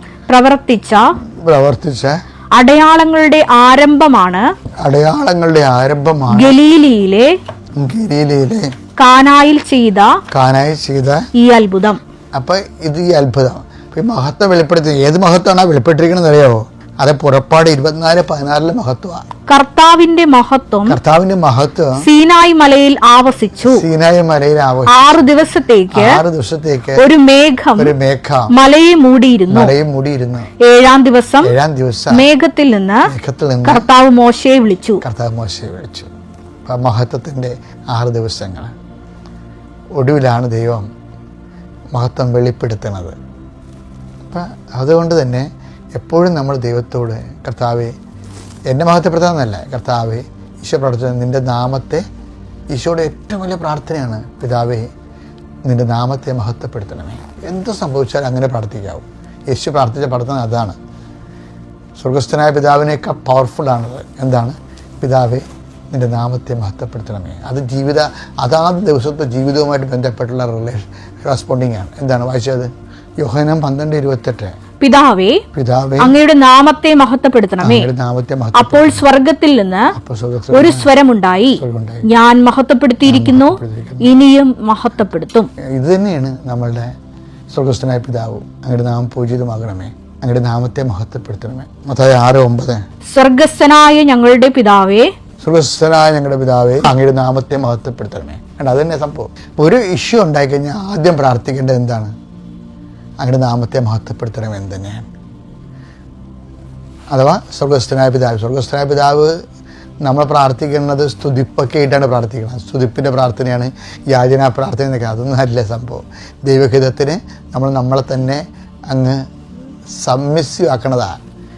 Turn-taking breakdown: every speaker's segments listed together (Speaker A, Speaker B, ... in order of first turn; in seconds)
Speaker A: 0.3-1.0, 2.6-4.5, 6.3-7.3, 9.0-10.1, 11.4-12.0, 19.5-21.0, 22.0-23.9, 24.9-26.2, 27.0-27.9, 28.5-29.8, 30.6-31.5, 32.1-33.1, 33.6-35.0, 74.8-75.4, 76.0-77.9, 78.5-79.9, 80.5-85.5, 93.1-95.1
Speaker B: 1.4-2.2, 4.8-6.6, 7.8-8.7, 10.3-11.2, 12.3-19.2, 20.9-22.0, 23.6-25.2, 25.9-27.0, 27.8-28.5, 29.5-30.5, 31.4-32.2, 33.1-33.9, 35.0-36.1, 36.7-38.7, 40.0-40.9, 42.0-43.1, 44.3-48.0, 48.7-52.0, 52.7-54.9, 55.7-60.8, 62.0-72.7, 73.2-74.5, 75.5-76.2, 77.6-79.0, 79.9-80.9, 81.6-82.1, 83.0-84.2, 85.8-86.9, 87.5-92.8, 95.4-102.1, 103.2-105.0, 107.1-109.3, 110.0-119.2, 120.0-121.2